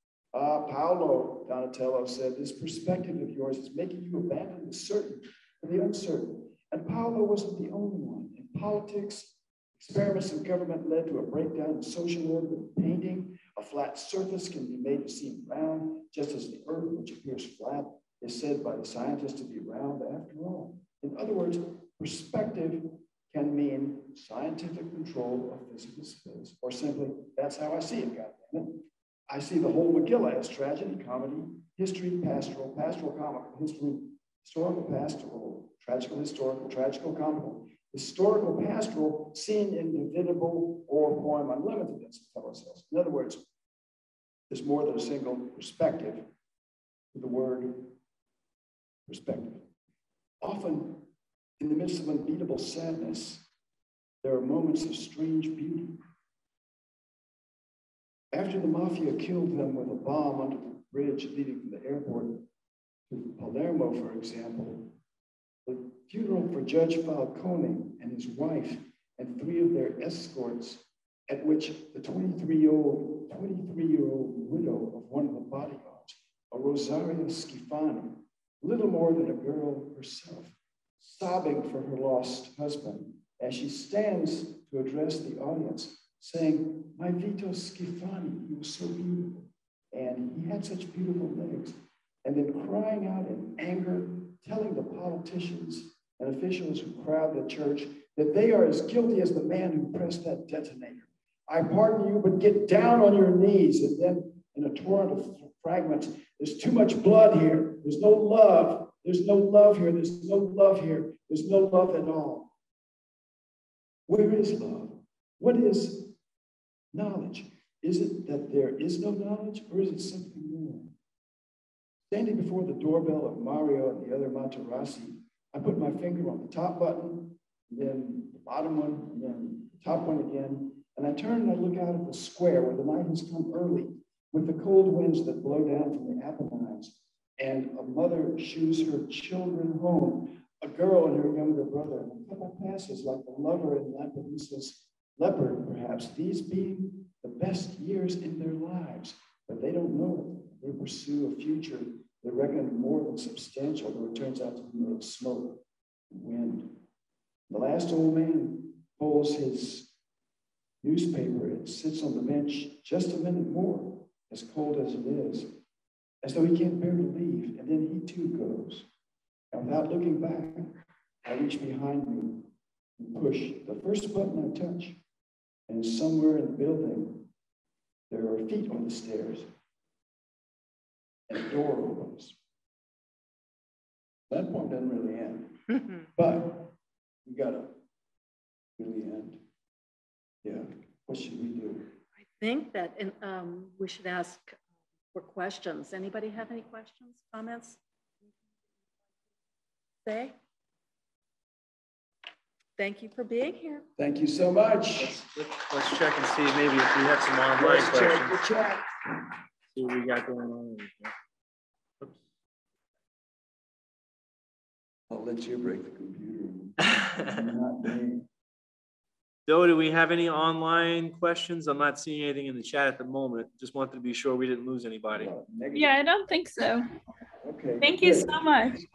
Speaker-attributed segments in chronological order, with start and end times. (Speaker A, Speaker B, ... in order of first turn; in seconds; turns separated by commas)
Speaker A: 0.3-43.5, Speaker A: 44.5-46.3, Speaker A: 47.1-48.0, Speaker A: 49.1-49.7, Speaker A: 50.4-53.4, Speaker A: 54.2-56.0, Speaker A: 58.3-62.5, Speaker A: 63.1-65.0, Speaker A: 65.6-112.5, Speaker A: 114.1-116.2, Speaker A: 116.9-120.9, Speaker A: 122.1-156.8, Speaker A: 157.5-159.9, Speaker A: 160.8-165.6, Speaker A: 166.2-168.9, Speaker A: 169.5-175.0, Speaker A: 175.7-177.3, Speaker A: 178.1-179.5, Speaker A: 181.3-182.4, Speaker A: 184.3-187.8, Speaker A: 188.8-189.4, Speaker A: 190.4-192.0, Speaker B: 192.2-194.6, Speaker B: 195.1-197.8, Speaker B: 200.0-200.4, Speaker B: 202.8-203.9, Speaker A: 204.0-205.2, Speaker C: 205.0-208.4, Speaker A: 207.6-208.9, Speaker C: 209.7-211.1, Speaker A: 215.1-218.3, Speaker C: 216.9-217.2, Speaker C: 219.5-225.3, Speaker A: 225.1-226.0, Speaker D: 225.7-226.9, Speaker A: 227.4-228.8, Speaker D: 227.8-228.8